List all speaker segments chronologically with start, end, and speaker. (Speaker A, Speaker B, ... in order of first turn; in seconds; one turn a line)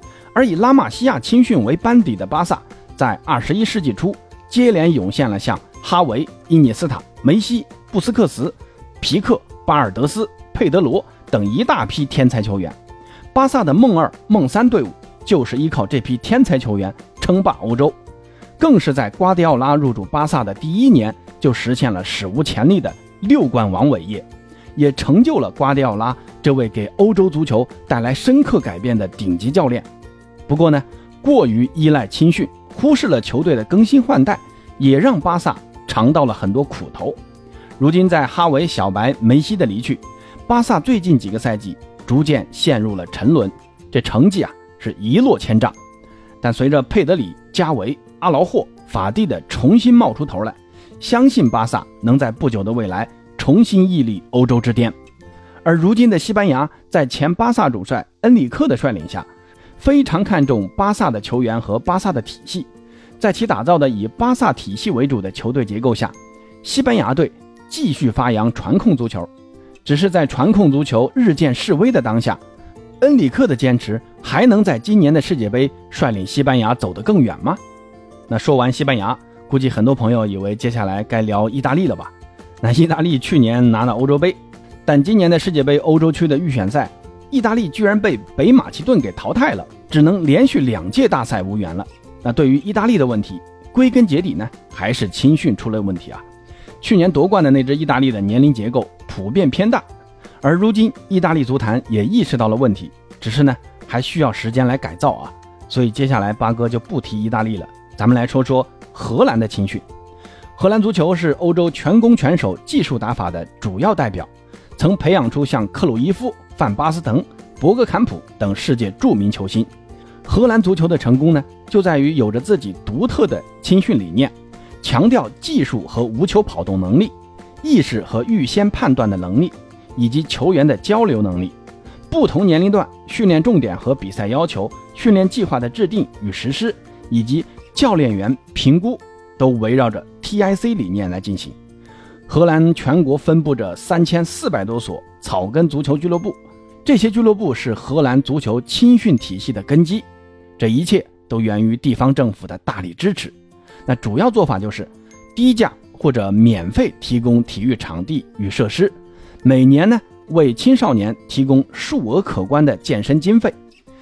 Speaker A: 0.3-12.7
Speaker A: 13.3-17.9
Speaker A: 18.6-29.9
Speaker A: 30.5-37.2
Speaker A: 37.8-45.7
Speaker A: 46.4-54.9
Speaker A: 55.6-59.3
Speaker A: 59.8-62.7
Speaker A: 63.2-69.3
Speaker A: 69.8-72.4
Speaker A: 73.0-77.6
Speaker A: 78.3-96.2
Speaker A: 96.8-99.8
Speaker A: 100.4-109.8
Speaker A: 110.5-119.7
Speaker A: 120.2-131.5
Speaker A: 132.1-141.5
Speaker A: 142.3-150.0
Speaker A: 150.6-153.3
Speaker A: 153.9-163.5